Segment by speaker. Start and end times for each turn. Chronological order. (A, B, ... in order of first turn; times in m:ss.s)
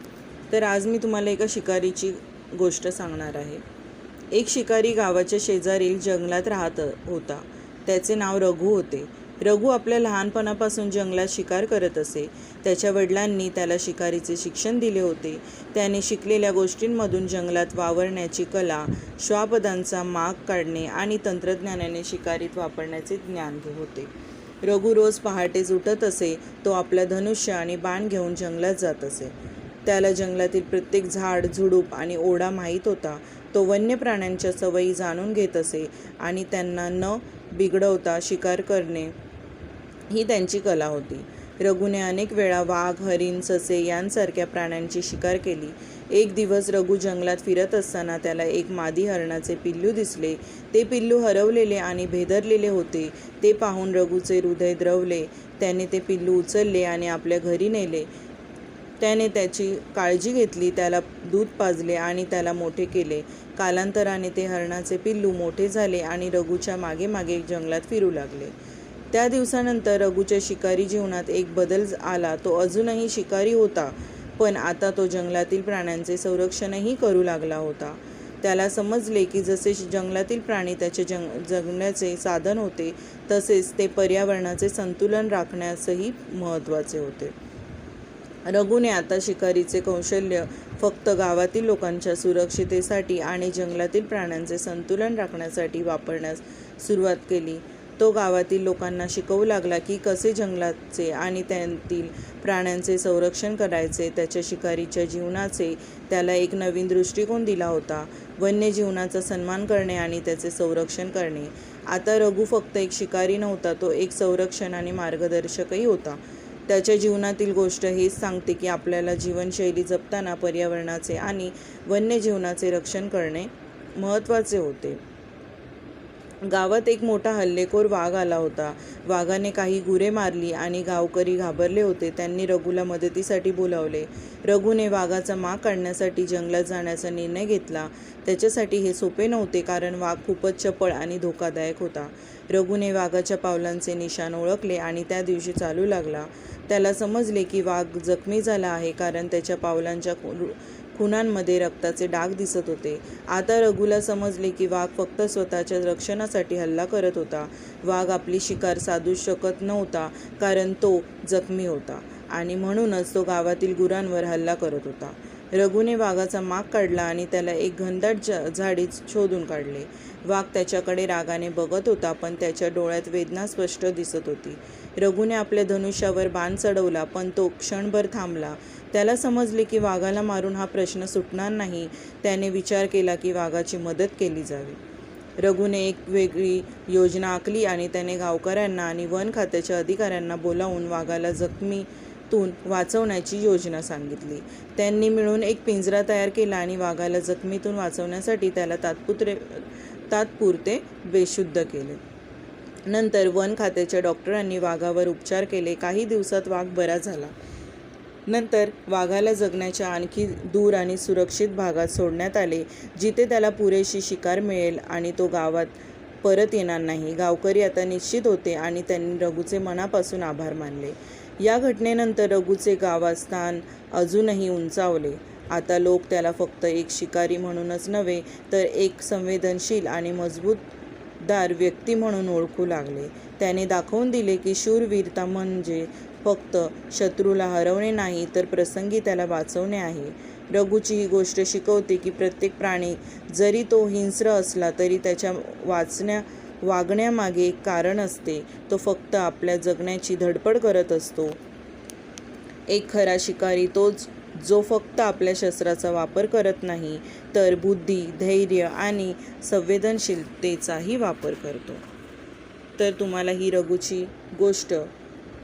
0:00.5-0:03.6 A
0:04.3-0:24.1 A
0:24.6-0:29.3 A
0:29.9-0:39.1 A
0:40.1-0:58.1 A
0:59.0-1:08.5 A
1:09.1-1:27.3 A
1:28.5-2:05.0 A
2:06.4-3:04.8 A
3:05.4-3:22.0 A
3:22.9-3:27.3 A
3:28.3-3:50.7 A
3:51.2-4:11.4 A
4:12.7-4:21.8 A
4:22.8-4:24.9 A